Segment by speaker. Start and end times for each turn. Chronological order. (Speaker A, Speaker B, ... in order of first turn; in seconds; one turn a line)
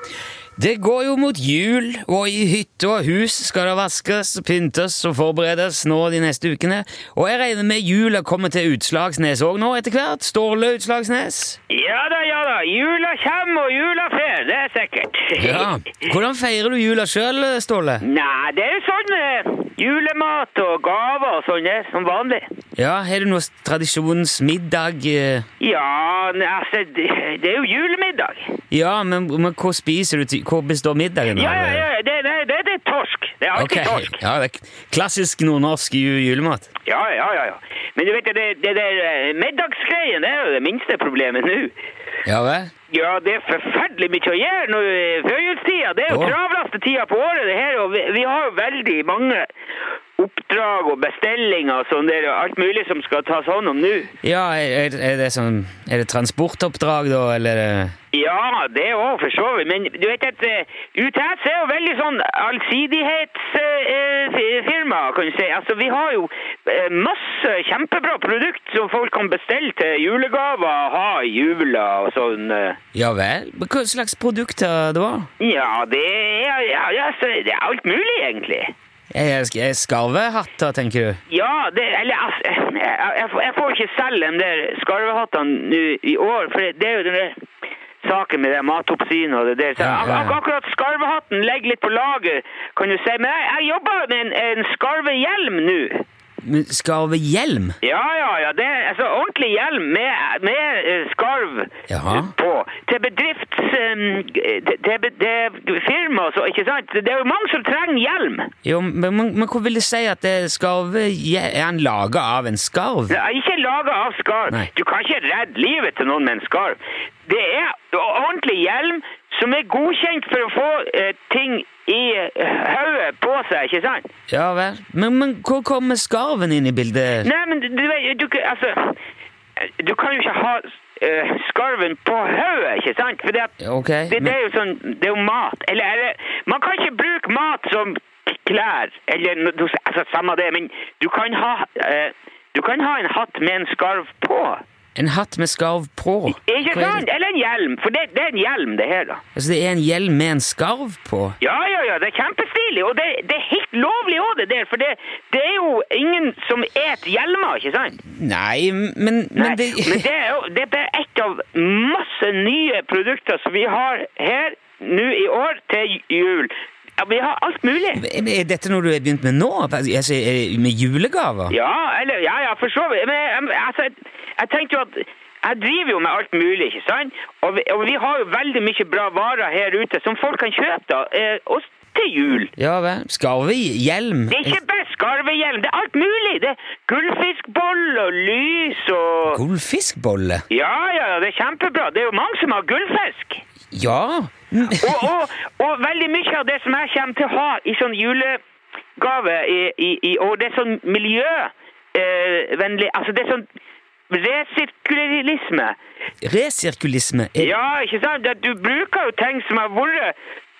Speaker A: 0.6-11.6
Speaker B: 11.7-15.7
Speaker A: 15.4-18.0
Speaker B: 18.0-22.5
Speaker A: 22.8-25.5
Speaker B: 25.6-28.6
Speaker A: 28.7-31.9
Speaker B: 31.4-34.2
Speaker A: 33.5-36.7
Speaker B: 36.9-41.7
Speaker A: 42.3-42.7
Speaker B: 42.9-49.5
Speaker A: 46.1-46.4
Speaker B: 50.2-54.1
Speaker A: 54.2-57.9
Speaker B: 58.1-72.8
Speaker A: 73.0-75.3
Speaker B: 75.4-78.7
Speaker A: 79.1-81.2
Speaker B: 81.3-87.4
Speaker B: 88.0-96.1
Speaker A: 89.8-90.4
Speaker A: 96.4-97.8
Speaker B: 97.8-108.5
Speaker A: 101.9-102.3
Speaker A: 108.6-113.2
Speaker B: 113.1-124.1
Speaker A: 124.3-127.3
Speaker B: 127.2-129.0
Speaker B: 129.6-133.6
Speaker A: 133.6-134.4
Speaker B: 134.1-144.6
Speaker A: 145.0-147.1
Speaker B: 146.4-149.2
Speaker A: 149.3-151.4
Speaker B: 151.4-158.0
Speaker A: 158.1-160.1
Speaker B: 159.3-168.0
Speaker A: 167.9-171.6
Speaker B: 171.5-182.5
Speaker A: 182.6-184.6
Speaker B: 184.3-189.4
Speaker A: 189.3-190.4
Speaker B: 190.5-193.4
Speaker A: 193.7-195.1
Speaker B: 194.8-198.4
Speaker B: 199.0-203.5
Speaker B: 204.1-205.8
Speaker A: 206.2-207.6
Speaker B: 207.4-210.2